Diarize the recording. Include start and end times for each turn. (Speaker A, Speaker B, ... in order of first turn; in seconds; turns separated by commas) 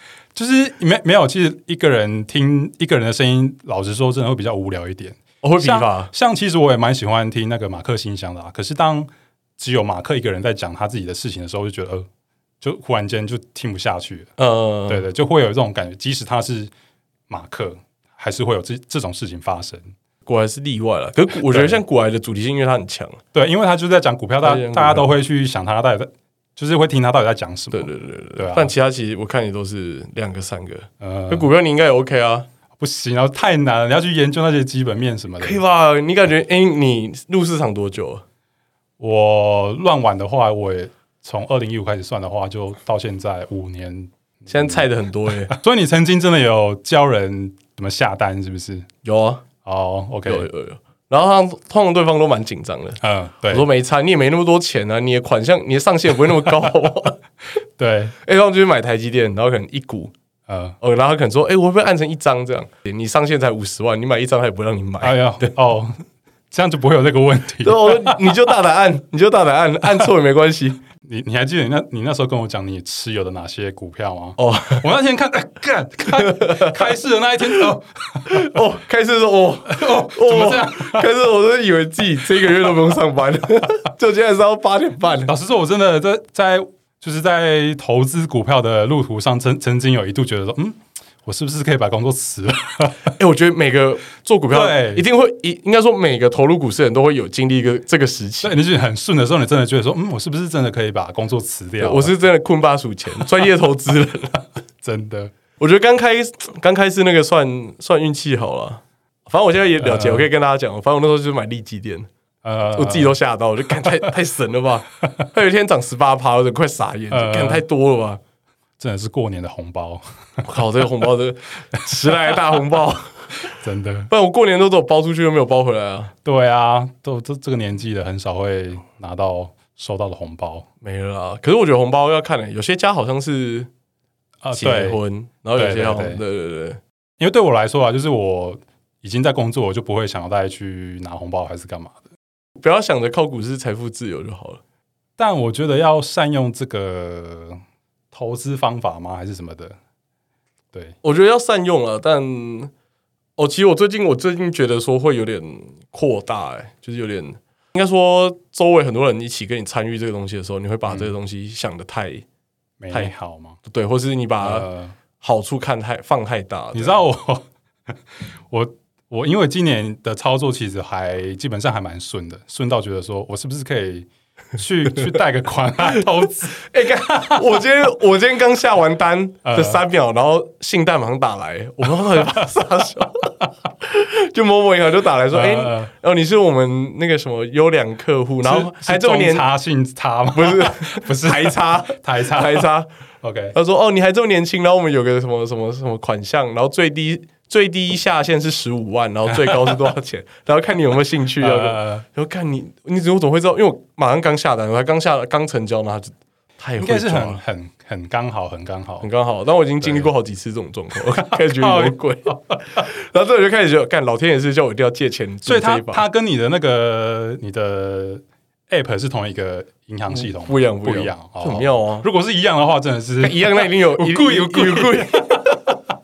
Speaker A: 0.3-12.1, Speaker B: 5.4-6.1, Speaker A: 12.6-14.3, Speaker B: 14.4-15.1, Speaker A: 14.9-16.7, Speaker A: 17.3-19.9, Speaker B: 20.2-23.2, Speaker A: 21.4-21.8, Speaker A: 23.3-28.7, Speaker B: 24.4-25.1, Speaker B: 27.7-32.5, Speaker A: 31.0-31.5, Speaker A: 32.8-35.6, Speaker B: 35.4-38.2, Speaker A: 39.0-44.9, Speaker B: 44.5-45.6, Speaker A: 45.5-48.9, Speaker B: 49.0-49.5, Speaker A: 49.6-50.5, Speaker B: 50.2-57.2, Speaker A: 53.0-53.7, Speaker A: 57.8-58.1, Speaker B: 58.2-60.1, Speaker A: 60.5-60.8, Speaker B: 60.8-65.5, Speaker A: 65.0-68.4, Speaker B: 67.6-70.8, Speaker A: 71.0-78.6, Speaker B: 74.4-74.9, Speaker B: 76.2-76.8, Speaker B: 78.2-85.3, Speaker A: 79.7-81.1, Speaker A: 82.3-82.7, Speaker A: 85.2-93.1, Speaker B: 93.1-98.6, Speaker A: 94.5-95.0, Speaker A: 98.4-102.2, Speaker B: 101.8-104.4, Speaker A: 104.8-105.3, Speaker B: 105.6-112.1, Speaker A: 109.8-110.3, Speaker A: 112.4-113.2, Speaker B: 112.7-118.2, Speaker A: 113.8-114.0, Speaker A: 117.1-117.6, Speaker A: 118.8-120.0, Speaker B: 120.4-123.5, Speaker A: 123.6-124.1, Speaker B: 124.1-126.1, Speaker A: 126.2-130.7, Speaker B: 130.8-133.7, Speaker A: 134.4-135.0, Speaker B: 134.5-136.8, Speaker A: 135.6-136.2, Speaker A: 137.2-142.0, Speaker B: 142.6-144.6, Speaker A: 145.2-147.6, Speaker A: 148.1-149.8, Speaker B: 151.0-152.7, Speaker B: 153.4-162.2, Speaker A: 160.9-161.1, Speaker A: 162.8-163.6, Speaker B: 163.6-164.7, Speaker A: 164.4-164.9, Speaker B: 165.2-167.0, Speaker A: 166.7-167.4, Speaker A: 168.5-177.5, Speaker B: 175.8-189.4, Speaker A: 179.4-179.8, Speaker A: 181.8-182.6, Speaker A: 185.3-185.9, Speaker A: 188.4-192.7, Speaker B: 190.3-192.9, Speaker A: 193.2-193.6, Speaker B: 193.5-207.4, Speaker A: 199.4-199.9, Speaker A: 201.4-202.0, Speaker A: 206.8-209.1, Speaker B: 209.0-216.0, Speaker A: 209.8-210.1, Speaker A: 211.0-212.8, Speaker A: 215.4-225.6, Speaker B: 220.1-222.1, Speaker B: 223.2-225.6